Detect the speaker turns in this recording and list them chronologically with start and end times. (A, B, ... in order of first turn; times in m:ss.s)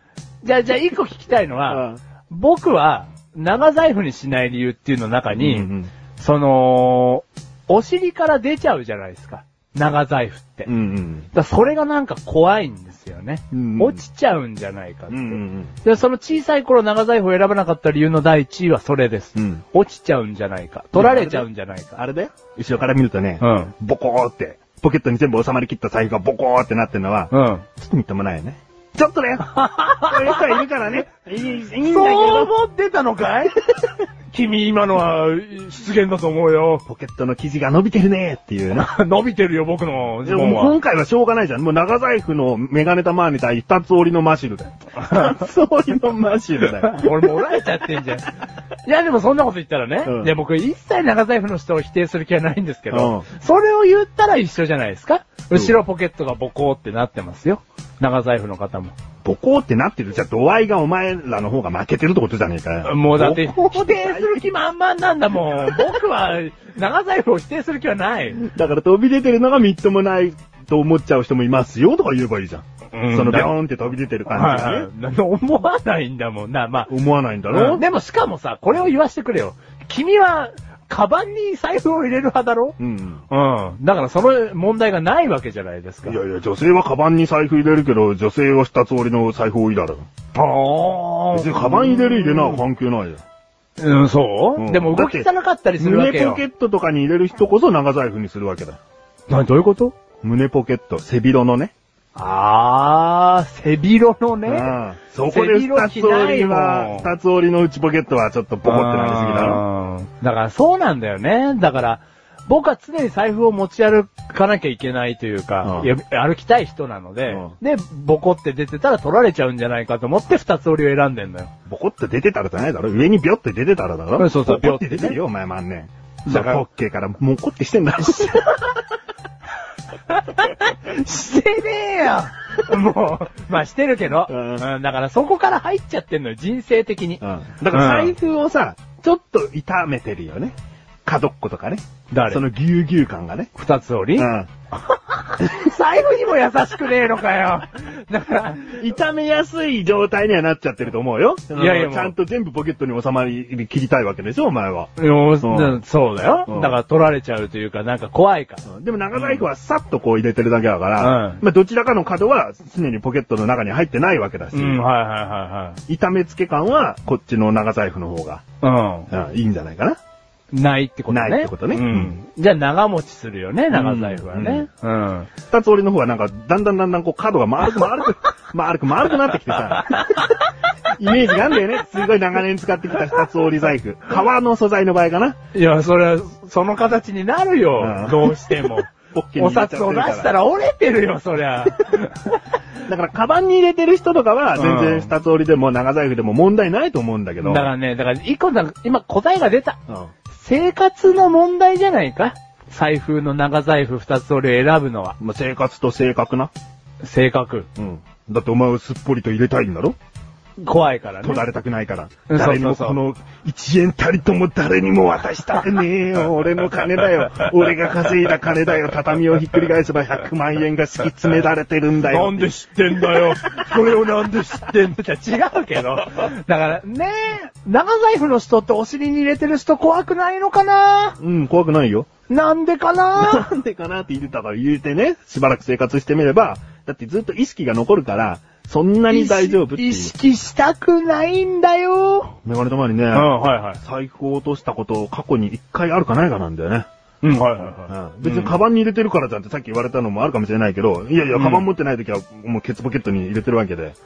0:00.4-0:10.7 A
0:01.7-0:02.0 B
0:05.3-0:05.9 B
0:10.7-0:11.3 B
0:11.3-0:22.0 A
0:13.5-0:14.0 B
0:15.1-0:15.8 B
0:19.4-0:19.6 B
0:20.9-0:32.5 B
0:23.4-0:23.7 A
0:27.3-0:27.6 A
0:29.4-0:30.6 A
0:31.8-0:36.8 A
0:36.8-0:38.9 B
0:38.7-0:40.8 A
0:40.2-0:47.4 B
0:46.6-0:59.0 A
0:50.0-0:50.3 B
0:52.9-0:53.3 B
0:55.5-0:55.8 B
0:59.2-1:04.5 B
1:02.8-1:08.4 A
1:08.4-1:14.9 B
1:12.9-1:13.5 A
1:14.3-1:16.9 A
1:16.9-1:17.8 B
1:17.5-1:22.8 A
1:22.8-1:23.2 B
1:23.3-1:26.2 A
1:26.0-1:30.1 B
1:30.3-1:32.6 A
1:31.3-1:33.2 B
1:33.8-1:36.4 A
1:34.6-1:38.8 B
1:39.3-1:39.9 A
1:40.2-1:41.7 B
1:42.1-1:47.1 A
1:44.4-1:49.6 B
1:48.6-2:01.5 A
1:55.6-1:55.9 B
1:57.3-1:57.5 B
2:01.7-2:08.7 B
2:04.2-2:05.2 A
2:06.3-2:06.6 A
2:08.2-2:08.7 A
2:10.1-2:18.1 A
2:14.2-2:14.6 B
2:17.2-2:23.5 B
2:22.1-2:22.4 A
2:23.5-2:24.3 A
2:24.2-2:24.5 B
2:24.8-2:28.8 A
2:28.6-2:34.9 B
2:31.5-2:32.1 A
2:35.0-2:39.4 A
2:35.4-2:35.8 B
2:36.5-2:36.8 B
2:38.6-2:44.8 B
2:41.0-2:41.4 A
2:44.5-2:45.8 A
2:45.9-2:48.4 B
2:48.6-2:49.1 A
2:49.1-2:50.0 B
2:50.5-2:55.3 A
2:51.1-2:52.2 B
2:53.7-2:54.7 B
2:55.5-3:00.2 B
2:59.8-3:00.4 A
3:00.9-3:05.4 B
3:05.5-3:12.4 A
3:07.8-3:08.4 B
3:09.1-3:10.3 B
3:12.8-3:17.7 B
3:14.6-3:15.1 A
3:17.4-3:19.8 A
3:20.3-3:25.2 A
3:25.2-3:26.5 B
3:27.0-3:27.7 A
3:27.8-3:30.0 B
3:30.6-3:31.4 A
3:31.2-3:43.9 B
3:32.3-3:33.0 A
3:42.0-3:51.2 A
3:51.2-3:52.1 B
3:52.3-3:53.5 A
3:53.1-4:00.1 B
3:59.1-4:02.4 A
4:02.4-4:06.9 B
4:03.1-4:03.8 A
4:07.2-4:08.6 A
4:07.9-4:14.0 B
4:11.3-4:11.6 A